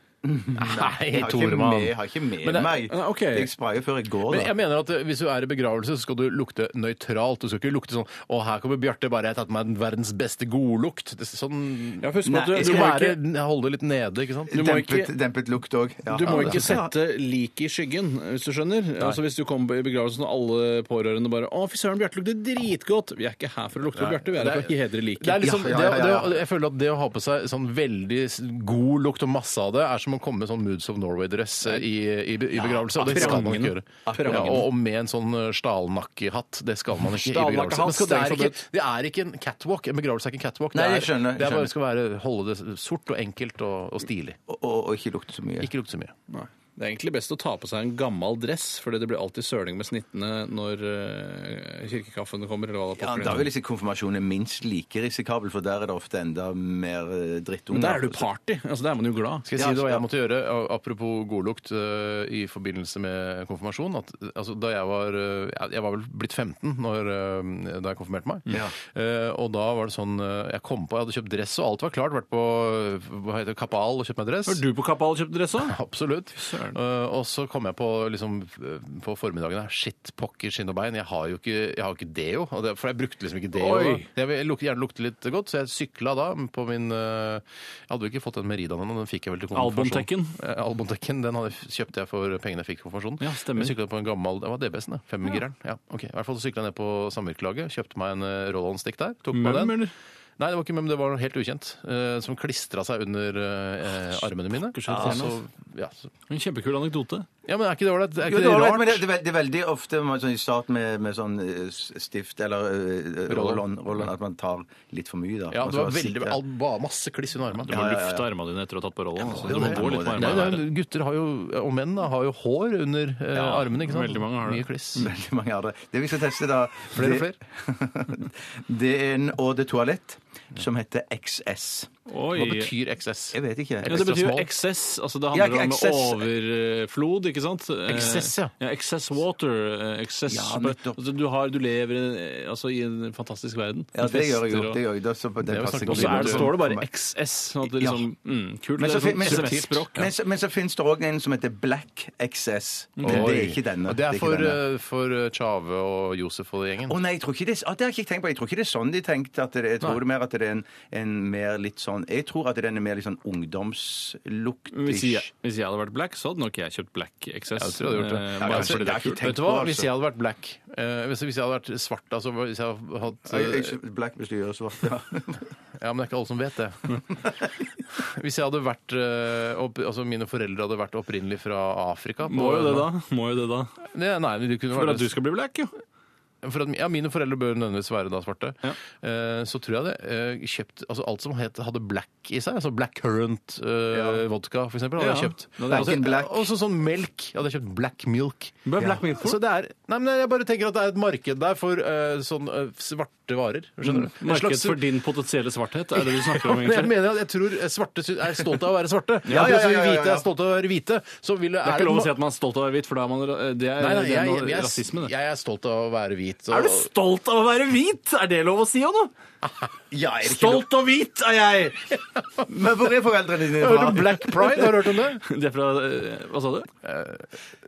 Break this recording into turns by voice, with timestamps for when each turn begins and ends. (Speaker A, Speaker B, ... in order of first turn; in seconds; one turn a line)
Speaker A: 0.2-4.5
Speaker B: 0.6-2.8
Speaker C: 2.9-3.5
Speaker B: 4.3-14.6
Speaker C: 12.0-13.2
Speaker A: 12.2-13.1
Speaker A: 14.5-16.9
Speaker C: 14.5-15.1
Speaker C: 16.1-25.7
Speaker B: 16.3-16.8
Speaker B: 24.0-44.4
Speaker A: 25.4-26.4
Speaker A: 32.6-33.5
Speaker C: 33.0-34.7
Speaker A: 34.0-34.6
Speaker C: 37.0-38.6
Speaker A: 40.7-41.7
Speaker A: 44.5-45.7
Speaker B: 45.6-46.1
Speaker C: 46.3-53.5
Speaker A: 53.0-58.2
Speaker C: 57.7-59.5
Speaker B: 59.5-74.6
Speaker A: 59.6-60.0
Speaker A: 68.5-68.7
Speaker C: 74.5-75.8
Speaker B: 75.6-99.8
Speaker C: 76.4-76.8
Speaker C: 83.5-84.1
Speaker C: 89.5-90.3
Speaker C: 93.2-93.7
Speaker C: 99.3-99.9
Speaker B: 100.4-106.1
Speaker C: 104.7-105.4
Speaker A: 104.9-105.2
Speaker C: 106.3-107.3
Speaker B: 107.5-109.0
Speaker A: 108.2-116.4
Speaker B: 113.3-113.6
Speaker B: 115.5-117.7
Speaker C: 117.7-120.6
Speaker A: 117.7-118.3
Speaker A: 119.2-120.5
Speaker B: 119.5-125.1
Speaker A: 123.3-123.6
Speaker C: 123.6-124.7
Speaker A: 125.0-131.9
Speaker B: 126.9-127.4
Speaker C: 132.1-132.7
Speaker B: 132.3-134.5
Speaker A: 133.3-134.0
Speaker C: 133.9-144.8
Speaker A: 135.3-136.2
Speaker B: 137.9-138.5
Speaker A: 140.3-141.0
Speaker A: 143.9-146.9
Speaker B: 145.5-146.6
Speaker C: 145.9-150.1
Speaker A: 147.6-148.1
Speaker A: 148.8-154.6
Speaker B: 149.2-149.6
Speaker C: 153.0-153.3
Speaker B: 153.0-157.0
Speaker A: 156.9-165.3
Speaker C: 164.7-169.3
Speaker B: 167.6-173.8
Speaker A: 168.4-169.9
Speaker A: 173.3-175.5
Speaker B: 175.8-177.0
Speaker B: 177.9-182.9
Speaker C: 182.3-183.8
Speaker B: 183.9-185.1
Speaker C: 184.7-185.7
Speaker B: 186.4-204.8
Speaker A: 193.9-194.2
Speaker C: 195.0-196.0
Speaker A: 195.7-196.4
Speaker C: 198.6-199.4
Speaker A: 198.8-199.0
Speaker C: 203.9-206.9
Speaker B: 206.0-212.1
Speaker A: 209.3-210.3
Speaker C: 209.3-209.6
Speaker C: 211.6-215.1
Speaker B: 213.8-216.9
Speaker C: 216.5-219.1
Speaker A: 219.9-220.8
Speaker C: 220.2-221.9
Speaker A: 222.4-224.6
Speaker B: 223.5-225.2
Speaker C: 225.2-226.7
Speaker B: 226.8-227.3